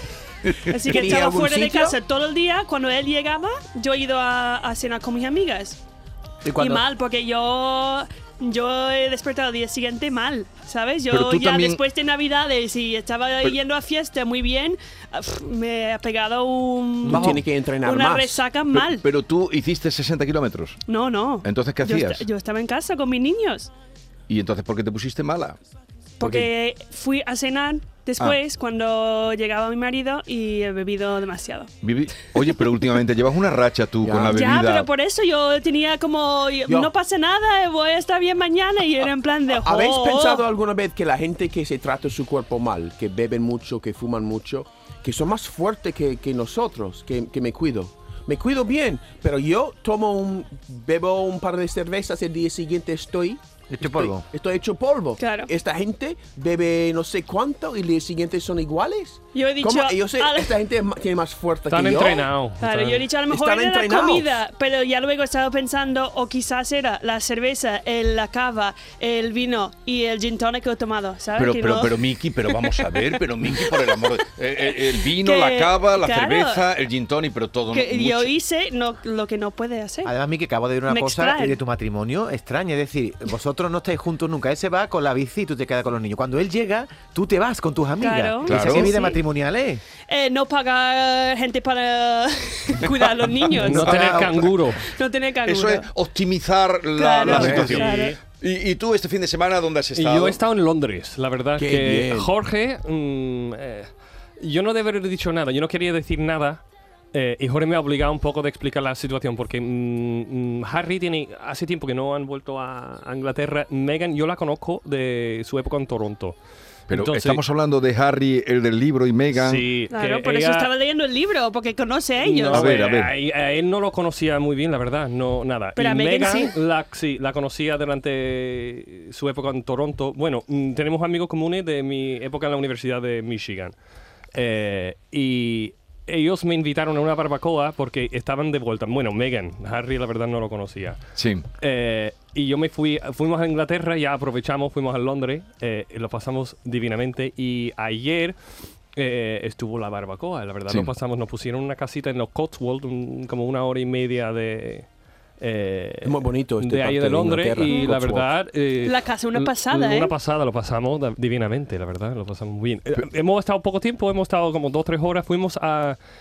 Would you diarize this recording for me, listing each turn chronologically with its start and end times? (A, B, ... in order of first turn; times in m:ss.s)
0:00.4-0:00.8 A
0:00.6-0:05.8 B
0:00.8-0:02.0 C
0:06.5-0:19.0 B
0:11.1-0:11.8 A
0:17.0-0:18.4 C
0:17.1-0:17.4 A
0:18.7-0:20.8 A
0:20.9-0:23.7 B
0:21.4-0:22.2 A
0:24.3-0:25.6 A
0:26.2-0:31.7 B
0:26.2-0:26.5 C
0:31.8-0:34.9 A
0:34.0-0:34.4 C
0:34.3-0:40.4 B
0:39.6-1:02.3 C
0:53.7-0:54.2 D
0:55.2-0:55.5 B
0:59.3-1:00.5 B
1:01.7-1:03.0 E
1:02.6-1:12.0 B
1:03.3-1:04.4 C
1:11.4-1:18.3 A
1:15.0-1:16.6 B
1:17.7-1:20.1 B
1:20.0-1:29.8 D
1:20.9-1:21.6 B
1:28.0-1:29.2 B
1:28.4-1:28.9 A
1:30.1-1:34.2 B
1:33.6-1:34.8 E
1:33.8-1:34.2 D
1:33.8-1:34.5 A
1:34.8-1:35.9 B
1:35.4-1:40.4 A
1:37.0-1:38.2 B
1:37.2-1:38.2 E
1:39.9-1:46.6 E
1:41.6-1:42.3 C
1:47.1-1:56.4 E
1:56.9-1:57.4 E
1:56.9-1:59.6 A
1:59.3-2:00.7 E
1:59.9-2:02.8 B
2:02.2-2:13.7 E
2:02.5-2:03.1 A
2:05.8-2:06.6 B
2:14.3-2:21.0 E
2:21.2-2:21.4 A
2:21.6-2:28.4 E
2:28.9-2:34.9 E
2:35.4-2:46.0 E
2:36.0-2:38.3 C
2:38.8-2:40.1 B